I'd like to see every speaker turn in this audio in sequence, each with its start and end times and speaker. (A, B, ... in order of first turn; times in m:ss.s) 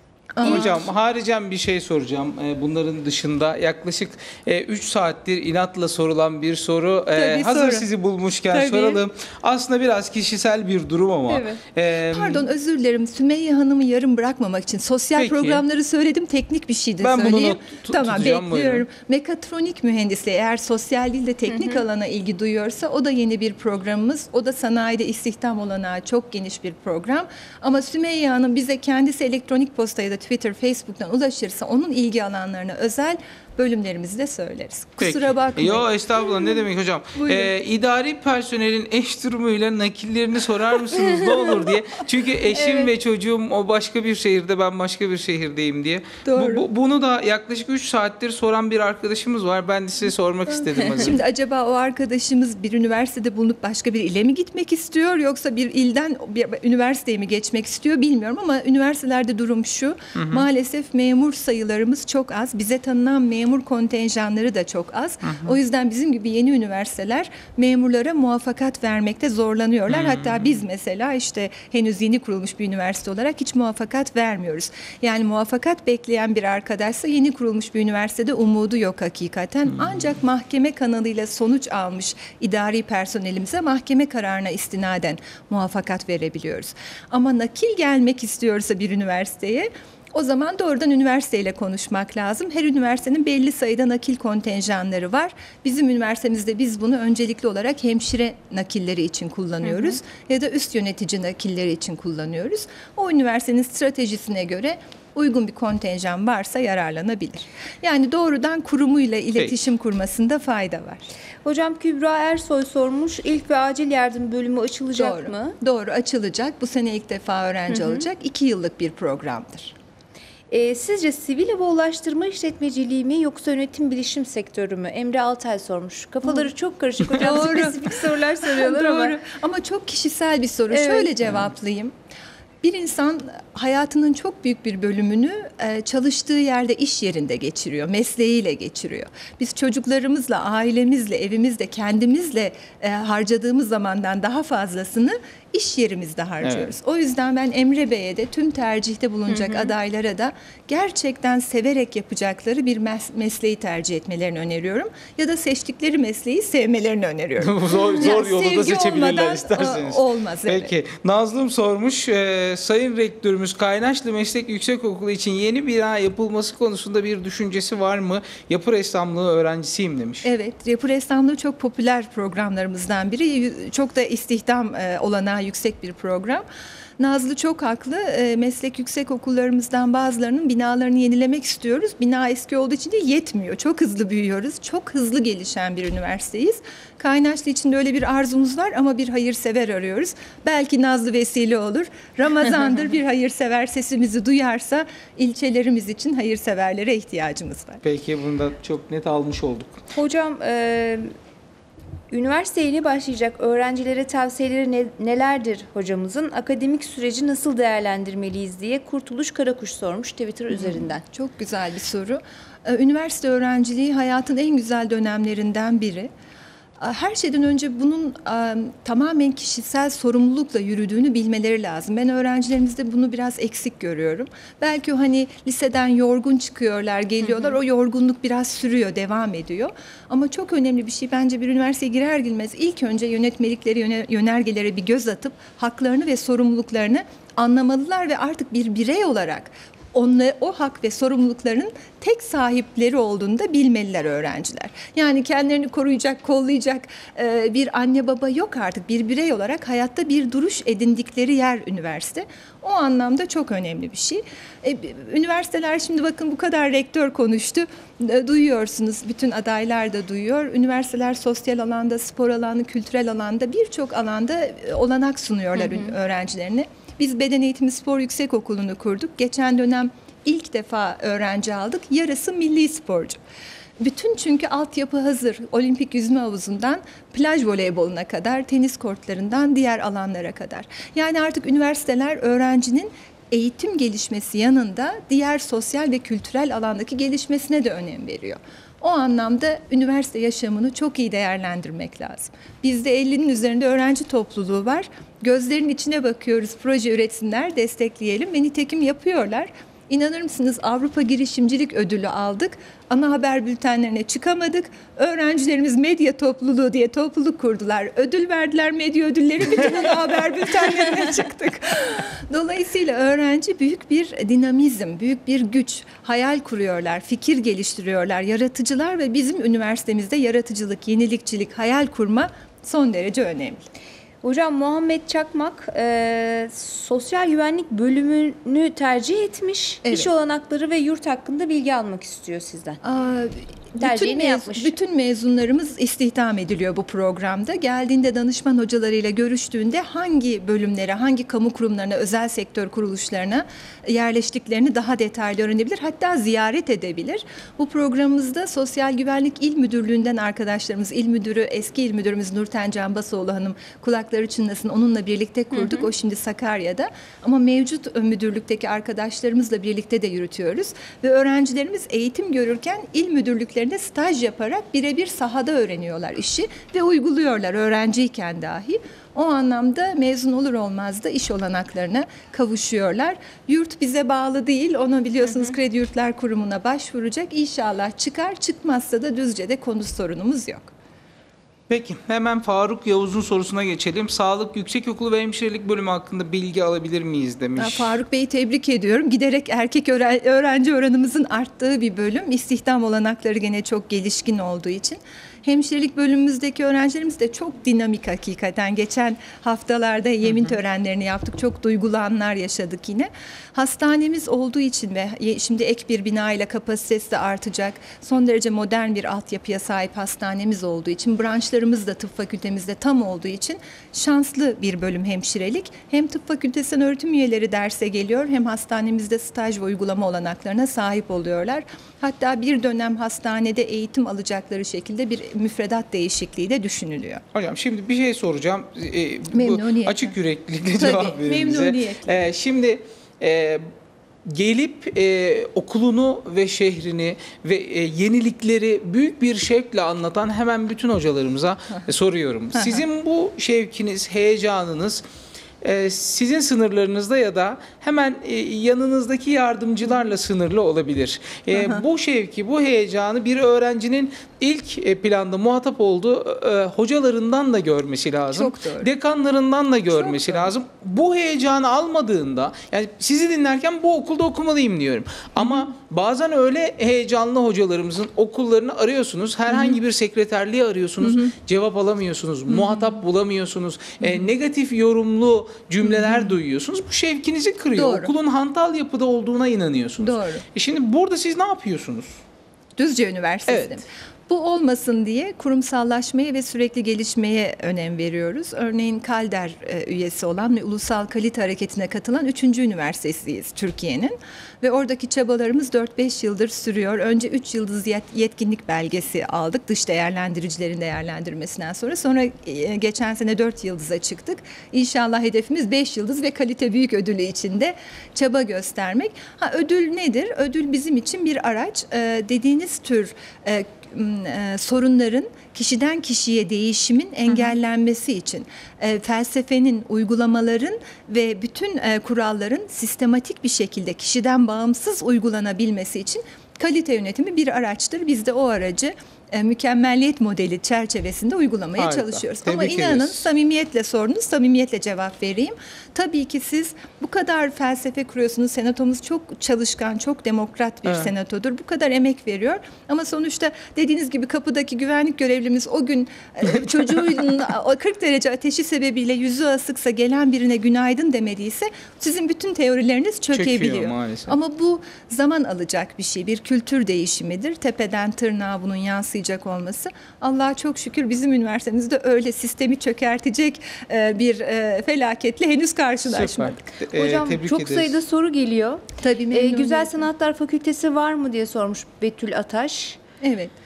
0:00.3-0:00.8 A
0:00.4-0:12.5 B
0:07.1-0:07.9 A
0:08.5-0:09.0 A
0:11.3-0:11.6 C
0:12.1-0:35.8 A
0:15.2-0:15.6 B
0:17.0-0:18.8 B
0:21.5-0:21.8 C
0:35.0-0:51.2 B
0:37.2-0:37.5 A
0:46.2-0:46.6 A
0:50.9-1:51.1 A
1:00.2-1:00.5 B
1:05.3-1:05.5 B
1:09.9-1:10.6 B
1:51.4-1:55.6 C
1:55.0-1:59.7 A
1:57.7-1:58.0 C
2:00.5-2:09.2 C
2:07.2-2:11.9 A
2:10.7-2:11.1 C
2:12.6-2:40.7 A
2:26.4-2:26.7 B
2:29.3-2:29.7 C
2:37.4-2:50.2 B
2:50.2-2:56.4 A
2:57.0-3:17.8 A
3:17.8-3:19.8 B
3:19.9-3:21.1 C
3:22.1-3:31.0 C
3:30.5-3:36.1 A
3:36.8-4:33.2 A
4:33.8-5:23.6 A
5:24.2-5:32.8 C
5:29.8-5:30.1 A
5:32.8-6:20.7 A
5:33.8-5:34.7 C
5:55.5-5:55.9 C
6:21.7-6:28.0 B
6:27.6-7:07.2 A
7:07.3-7:13.7 B
7:09.3-7:10.1 A
7:10.8-7:12.2 A
7:14.2-7:25.0 B
7:22.5-7:22.8 A
7:25.6-8:02.2 B
7:31.5-7:31.8 A
7:38.3-7:38.9 A
7:39.9-7:40.5 A
7:49.5-7:49.8 A
7:51.0-7:51.3 A
7:52.5-7:52.9 A
7:55.8-7:56.3 A
7:57.8-7:58.1 A
8:00.0-8:00.4 A
8:02.8-9:26.6 A
8:03.5-8:03.8 B
8:51.8-8:53.3 B
9:06.6-9:07.1 B
9:13.3-9:14.3 B
9:26.0-9:28.0 B
9:26.9-9:33.0 C
9:29.0-9:30.0 A
9:33.2-9:33.5 A